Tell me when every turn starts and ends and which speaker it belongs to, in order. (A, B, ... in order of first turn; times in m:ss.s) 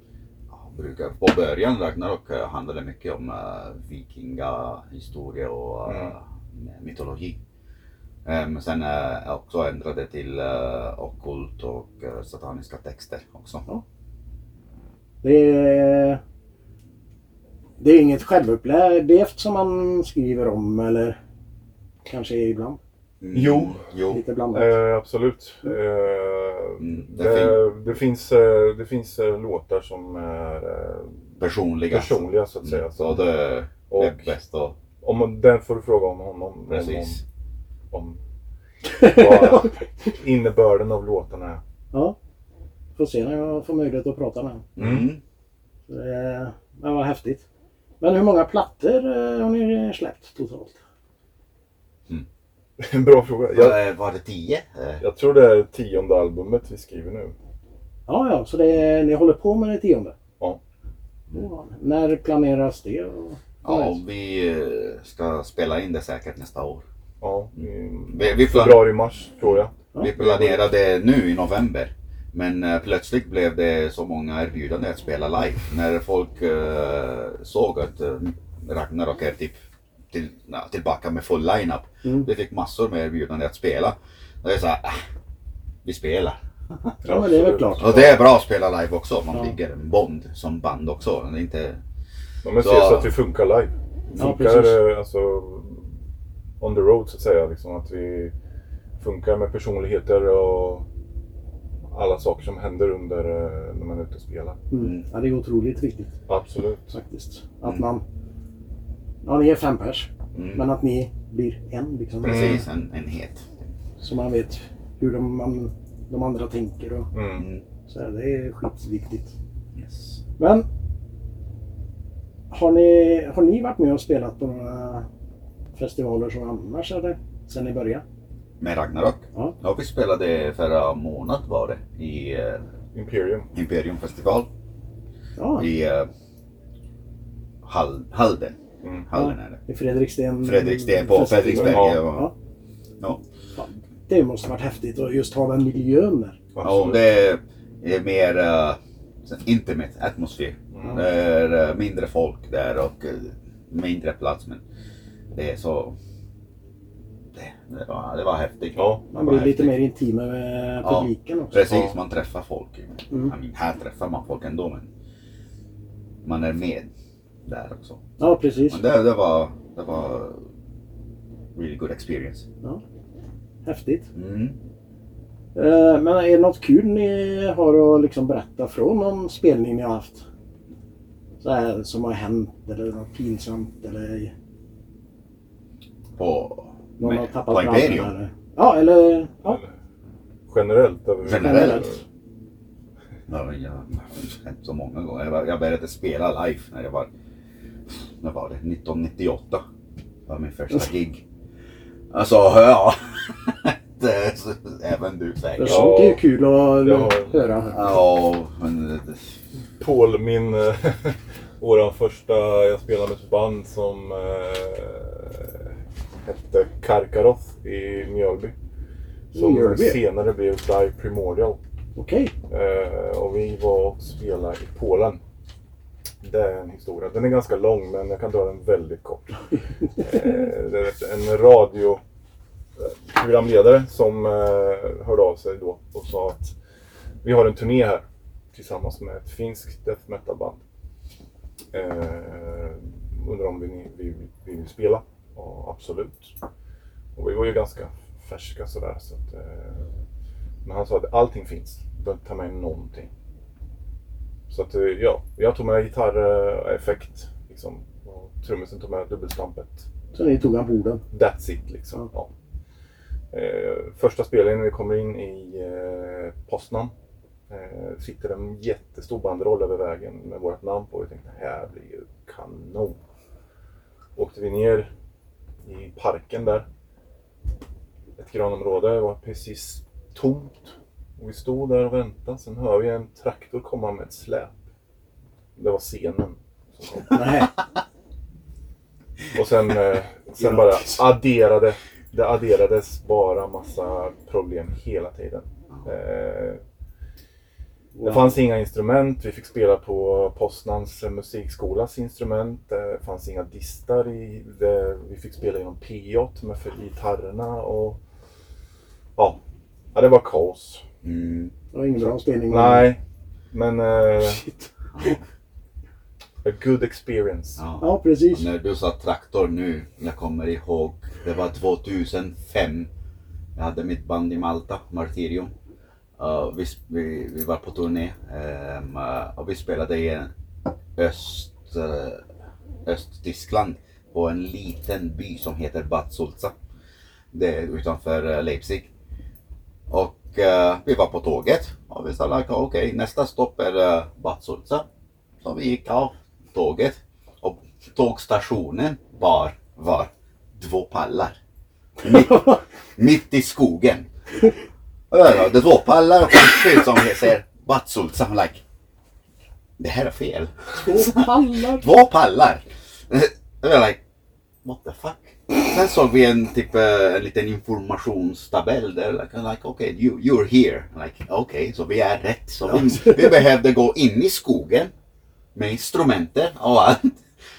0:00.5-0:07.4 A
0:05.9-0:06.1 B
0:08.2-0:13.6 A
0:15.2-0:16.2 C
0:17.8-0:21.2 C
0:22.1-0:22.8 C
0:23.2-0:24.2 A
0:23.3-0:23.8 B
0:24.1-0:24.8 C
0:24.5-0:31.2 B
0:26.8-0:27.6 A
0:31.4-0:34.8 A
0:31.9-0:33.3 B
0:33.9-0:34.3 B
0:35.0-0:37.2 B
0:36.7-0:37.2 A
0:37.9-0:38.2 B
0:39.0-0:39.8 C
0:39.0-0:41.6 B
0:43.0-0:44.7 C
0:44.8-0:45.2 A
0:44.8-0:45.1 B
0:45.9-0:47.4 C
0:48.0-0:50.8 C
0:52.8-0:53.8 B
0:53.5-0:55.0 A
0:55.0-0:57.3 B
0:58.1-1:00.2 C
1:01.3-1:04.0 C
1:03.6-1:06.8 A
1:07.2-1:10.7 B
1:08.1-1:19.6 A
1:20.1-1:25.0 A
1:22.0-1:22.3 C
1:25.8-1:26.4 A
1:27.0-1:27.9 C
1:27.0-1:28.2 B
1:27.8-1:31.8 A
1:32.4-1:35.9 B
1:32.6-1:33.1 A
1:34.2-1:34.8 C
1:36.6-1:38.3 B
1:39.0-1:40.9 B
1:41.9-1:44.6 B
1:44.7-1:46.1 C
1:46.3-1:46.9 B
1:46.9-1:48.0 C
1:49.2-1:52.6 C
1:50.3-1:50.7 A
1:52.2-1:53.5 A
1:52.2-1:52.6 B
1:54.0-1:57.1 C
1:57.1-1:57.5 B
1:57.4-1:57.6 A
1:57.9-1:59.3 C
1:59.8-2:00.2 A
2:00.4-2:00.7 C
2:02.5-2:05.1 C
2:05.7-2:08.0 C
2:08.6-2:12.6 A
2:12.9-2:13.5 B
2:13.5-2:14.5 A
2:15.4-2:15.7 C
2:15.6-2:16.1 A
2:17.6-2:18.6 A
2:18.8-2:19.1 B
2:19.1-2:19.6 A
2:19.1-2:22.3 C
2:20.4-2:22.3 A
2:21.6-2:22.1 B
2:23.6-2:26.4 C
2:26.6-2:27.0 B
2:26.6-2:34.6 A
2:30.7-2:31.0 B
2:35.3-2:36.0 A
2:37.3-2:39.7 A
2:38.8-2:39.1 B
2:39.1-2:41.8 C
2:40.8-2:44.9 A
2:46.2-2:46.9 A
2:47.5-2:48.1 A
2:48.2-2:48.8 C
2:48.7-2:50.4 A
2:51.6-2:52.5 A
2:53.6-2:54.1 C
2:54.1-2:54.6 A
2:55.6-3:00.2 C
3:01.4-3:04.3 C
3:06.2-3:08.1 A
3:07.0-3:09.6 C
3:10.5-3:12.0 B
3:11.2-3:11.9 A
3:11.4-3:12.0 C
3:13.3-3:17.1 A
3:18.2-3:19.6 A
3:20.3-3:21.2 A
3:22.1-3:25.9 A
3:25.6-3:27.8 C
3:25.6-3:26.2 B
3:26.8-3:27.4 B
3:27.7-3:29.2 A
3:29.8-3:35.7 B
3:36.2-3:38.5 B
3:39.3-3:41.6 B
3:39.3-3:40.0 C
3:42.0-3:42.3 C
3:42.5-3:45.2 B
3:46.2-3:52.0 B
3:52.8-3:56.6 B
3:57.2-4:00.6 B
4:01.7-4:06.3 B
4:07.2-4:09.8 B
4:10.6-4:13.1 B
4:14.5-4:19.9 B
4:20.1-4:21.0 C
4:21.1-4:22.3 B
4:23.3-4:26.9 B
4:27.5-4:33.0 B
4:34.2-4:34.9 B
4:35.6-4:36.7 B
4:38.2-4:44.6 B
4:45.6-4:47.4 B
4:47.1-4:47.5 C
4:49.3-4:56.6 B
4:50.4-4:51.0 C
4:58.0-4:58.4 C
4:58.0-5:08.0 B
5:09.9-5:10.8 B
5:11.0-5:11.5 A
5:11.7-5:12.9 C
5:12.5-5:13.0 B
5:13.5-5:14.4 B
5:14.2-5:14.7 C
5:15.0-5:15.2 A
5:16.4-5:17.6 B
5:17.6-5:22.9 A
5:17.8-5:18.5 C
5:23.6-5:25.5 A
5:26.2-5:30.3 A
5:31.0-5:32.2 A
5:32.8-5:36.6 A
5:37.3-5:38.9 A
5:39.9-5:44.9 A
5:45.4-5:51.4 A
5:52.0-5:54.1 A
5:55.1-5:58.6 A
5:59.8-6:04.0 A
6:00.8-6:01.9 C
6:04.6-6:14.9 A
6:15.6-6:17.2 A